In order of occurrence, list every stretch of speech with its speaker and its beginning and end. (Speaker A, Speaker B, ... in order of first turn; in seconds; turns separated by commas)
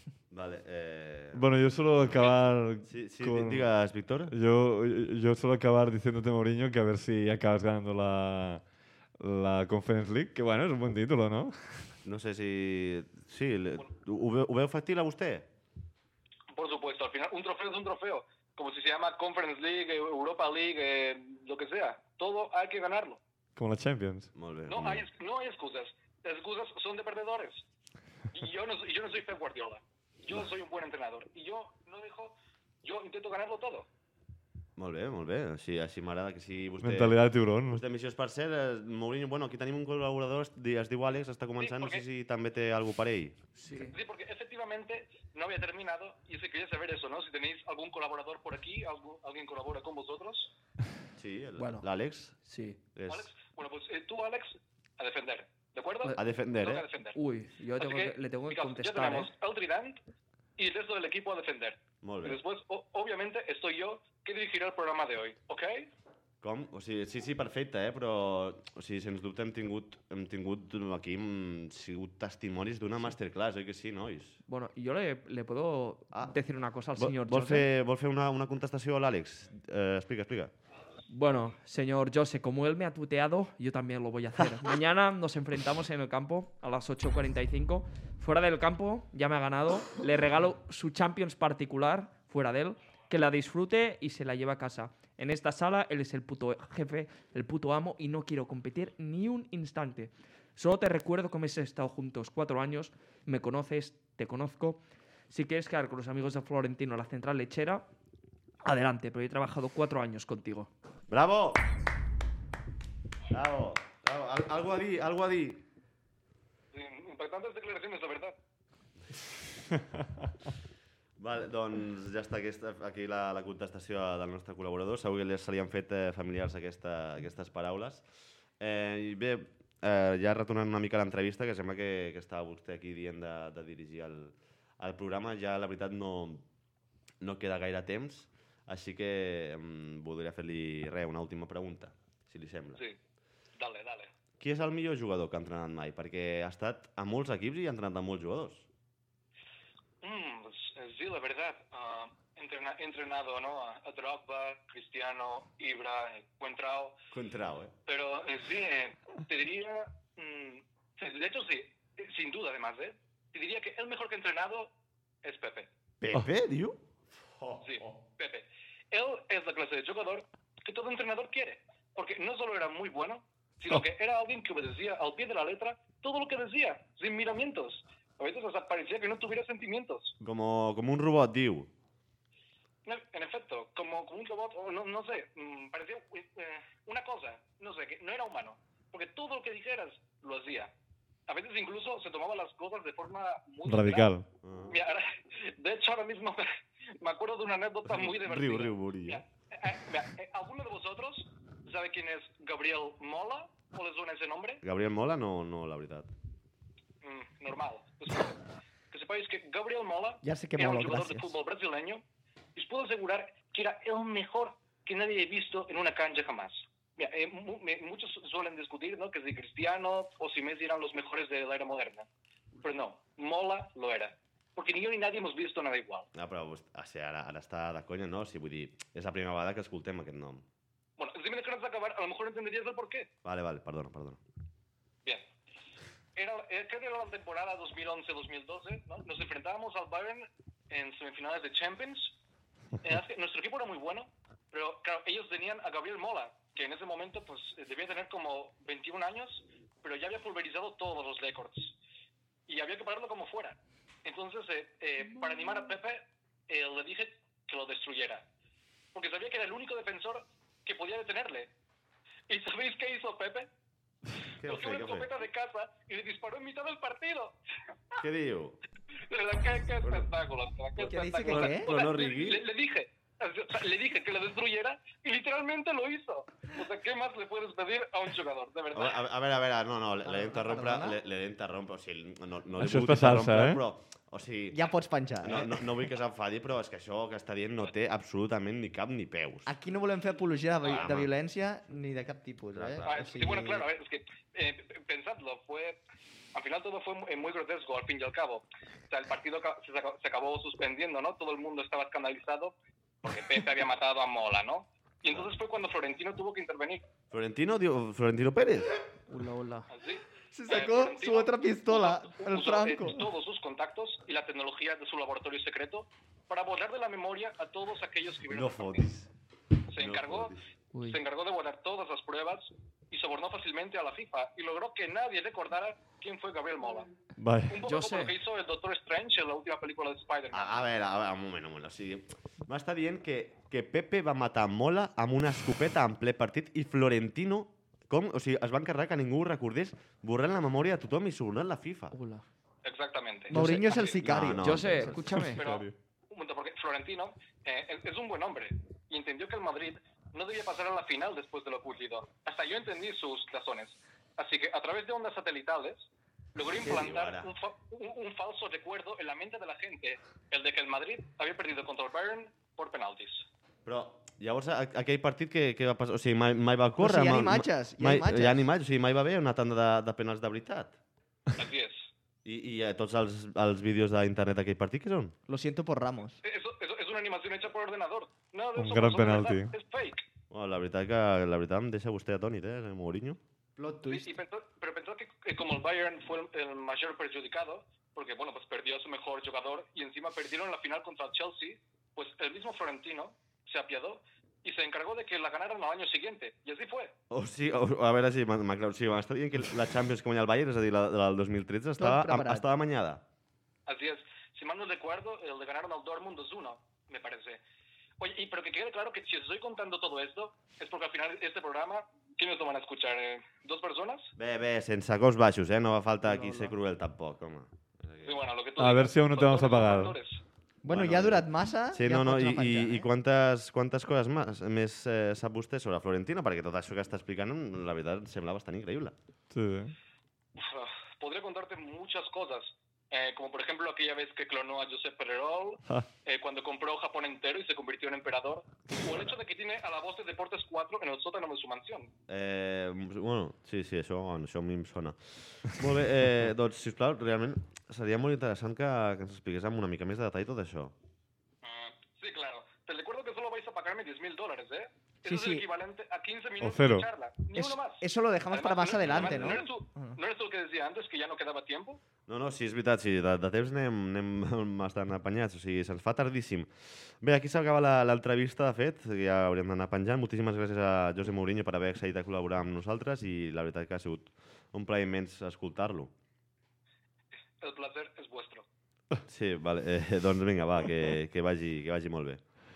Speaker A: 0.3-1.5, Speaker B: 1.3-3.7, Speaker A: 2.9-4.3, Speaker B: 4.3-8.6, Speaker B: 9.2-11.9, Speaker A: 12.0-15.5, Speaker C: 16.5-23.2, Speaker B: 23.6-24.3, Speaker A: 24.3-25.1, Speaker C: 24.7-27.6, Speaker C: 28.3-33.9, Speaker A: 34.8-37.1, Speaker B: 36.8-37.8, Speaker A: 37.7-43.4, Speaker C: 41.6-42.0, Speaker D: 43.6-44.0, Speaker C: 43.7-50.5, Speaker A: 51.2-52.4, Speaker D: 51.6-51.9, Speaker D: 52.4-52.8, Speaker A: 52.9-53.3, Speaker C: 53.1-57.2, Speaker A: 56.2-56.9, Speaker D: 57.1-59.3, Speaker C: 57.8-60.0, Speaker C: 60.6-65.9, Speaker A: 62.0-62.4, Speaker A: 66.4-74.4, Speaker D: 74.5-77.7, Speaker A: 77.0-80.5, Speaker D: 81.1-107.8, Speaker D: 108.6-110.7, Speaker A: 111.1-111.6, Speaker A: 113.3-115.6, Speaker C: 116.7-118.3, Speaker A: 121.2-128.0, Speaker A: 128.6-136.4, Speaker A: 137.2-142.8, Speaker C: 143.6-144.1, Speaker A: 144.4-148.7, Speaker C: 150.0-157.0, Speaker A: 157.1-157.7, Speaker C: 157.9-164.7, Speaker C: 165.2-165.7, Speaker A: 166.0-166.8, Speaker A: 167.4-167.7, Speaker C: 167.6-180.1, Speaker A: 180.2-181.7, Speaker C: 182.8-190.7, Speaker C: 191.3-194.1, Speaker B: 193.7-194.2, Speaker A: 194.4-194.8, Speaker C: 194.7-196.5, Speaker C: 197.0-204.6, Speaker A: 197.8-199.2, Speaker A: 204.6-206.1, Speaker C: 207.0-208.4, Speaker C: 208.9-212.0, Speaker E: 210.2-211.3, Speaker C: 212.5-222.1, Speaker C: 222.6-226.1, Speaker A: 226.1-230.4, Speaker C: 231.0-233.1, Speaker A: 233.2-234.2, Speaker C: 236.1-242.1, Speaker C: 242.8-251.7, Speaker C: 252.5-258.2, Speaker C: 258.9-261.5, Speaker C: 262.3-263.5, Speaker A: 264.4-265.1, Speaker C: 264.4-267.4, Speaker A: 268.0-268.6, Speaker C: 269.1-279.0, Speaker A: 269.8-270.1, Speaker E: 270.8-271.7, Speaker A: 271.3-272.4, Speaker A: 278.7-284.6, Speaker E: 280.0-281.0, Speaker B: 282.6-283.6, Speaker E: 284.5-285.6, Speaker A: 285.2-289.5, Speaker E: 289.4-293.6, Speaker A: 290.6-291.1, Speaker A: 292.5-293.0, Speaker C: 292.8-295.8, Speaker C: 296.3-306.8, Speaker A: 307.1-308.8, Speaker D: 309.1-309.7, Speaker C: 309.7-318.9, Speaker E: 310.3-313.0, Speaker A: 318.3-319.1, Speaker C: 319.7-326.9, Speaker A: 319.7-320.4, Speaker D: 320.7-321.0, Speaker B: 327.2-327.6, Speaker C: 327.5-330.6, Speaker D: 327.6-328.1, Speaker A: 330.3-341.9, Speaker D: 341.9-342.2, Speaker C: 342.6-343.4, Speaker E: 343.3-344.9, Speaker D: 343.3-343.6, Speaker A: 343.7-345.2, Speaker D: 344.4-345.6, Speaker B: 344.9-345.7, Speaker C: 345.3-363.2, Speaker A: 356.4-357.3, Speaker A: 363.6-370.7, Speaker E: 366.8-368.4, Speaker C: 371.4-371.9, Speaker A: 372.2-375.1, Speaker E: 375.3-376.2, Speaker C: 376.2-380.0, Speaker B: 378.6-379.5, Speaker A: 380.3-383.2, Speaker E: 383.6-384.2, Speaker C: 383.9-396.9, Speaker A: 397.1-403.0, Speaker E: 401.8-402.4, Speaker C: 403.7-407.4, Speaker C: 408.0-414.1, Speaker A: 414.2-418.2, Speaker D: 416.1-416.4, Speaker C: 418.0-420.2, Speaker B: 418.6-420.0, Speaker E: 420.6-422.9, Speaker A: 420.7-428.9, Speaker B: 429.3-429.7, Speaker C: 430.4-441.9, Speaker A: 442.1-450.7, Speaker C: 451.4-461.8, Speaker E: 455.0-455.4, Speaker B: 456.4-456.9, Speaker E: 457.3-460.0, Speaker A: 458.9-459.4, Speaker A: 462.1-466.5, Speaker A: 467.0-475.9, Speaker C: 477.4-478.4, Speaker A: 479.0-482.2